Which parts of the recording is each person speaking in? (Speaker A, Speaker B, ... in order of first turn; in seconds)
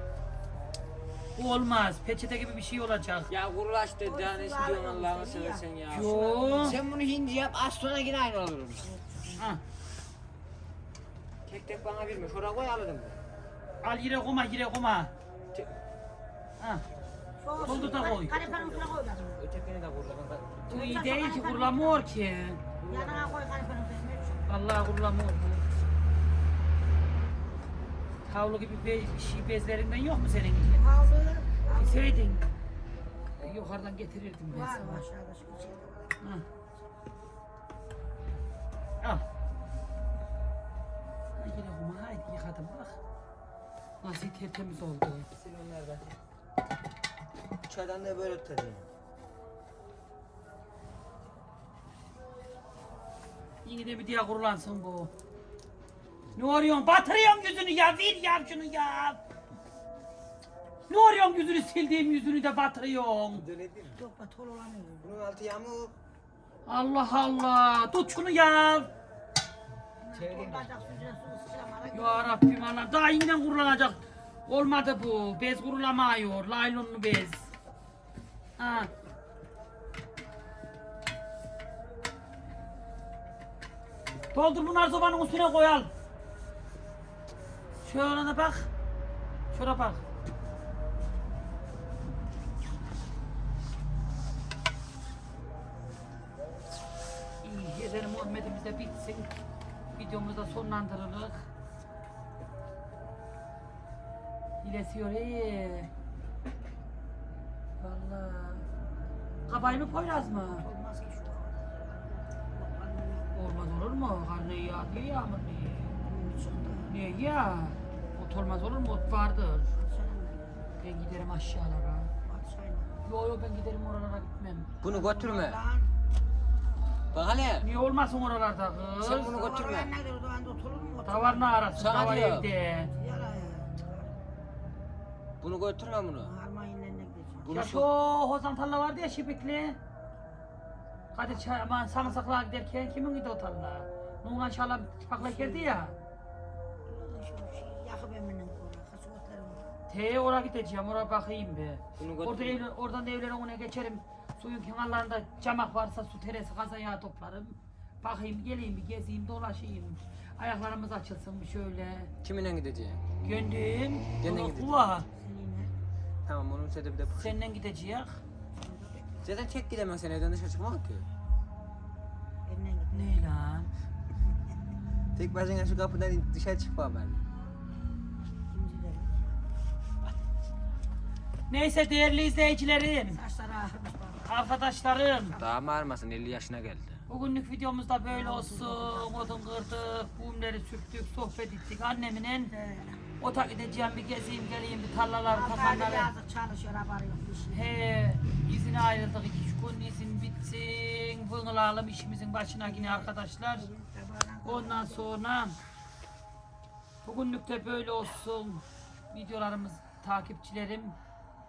Speaker A: 1.4-3.3, 5.9-6.8, 13.8-15.1, 17.6-18.4, 20.7-22.6, 24.5-25.6, 28.3-30.8, 31.7-32.4, 33.4-35.0, 41.4-43.0, 44.0-45.3, 53.6-55.1, 56.4-59.2, 60.9-63.5, 66.7-68.9, 71.9-77.4, 78.6-78.9, 84.3-85.9, 87.8-88.7, 89.5-90.0, 97.4-99.3, 100.0-101.5, 104.6-105.9, 107.8-108.7, 109.5-110.6, 113.3-116.0, 116.9-119.7, 120.8-122.1, 123.0-124.7, 127.6-129.4, 131.0-132.9, 137.5-139.8, 141.1-145.9, 149.9-162.1, 163.2-165.1, 167.2-168.2, 172.9-173.7, 181.5-183.2, 184.3-185.3, 187.1-192.5, 193.2-196.1, 197.5-203.7, 204.4-205.6, 207.0-211.0
Speaker B: 3.3-8.9, 11.5-13.2, 17.6-20.9, 22.8-23.4, 45.4-46.2, 47.7-48.9, 63.3-64.0, 65.0-65.9, 70.1-71.0, 124.8-125.6, 127.1-127.7, 129.0-129.9, 131.8-132.5, 135.4-136.3, 137.4-137.9, 152.0-152.6, 162.2-163.0, 164.2-164.9, 166.3-167.4, 169.2-171.1, 175.2-177.2, 185.4-187.0
Speaker C: 4.0-6.8, 8.8-9.6, 17.4-19.5, 20.7-22.1, 22.9-24.5, 30.7-32.4, 34.5-36.3, 64.0-65.2, 70.0-72.4, 109.5-113.4, 116.0-116.9, 119.7-120.7, 122.2-123.0, 124.8-125.9, 129.2-131.8, 132.9-134.1, 136.2-137.5, 141.2-142.2, 145.2-145.9, 146.9-149.8, 165.1-165.7, 168.6-169.3, 172.5-173.3, 178.5-179.1, 183.1-184.5, 185.1-185.6, 188.1-189.3, 192.5-193.0, 195.3-197.7, 202.6-205.2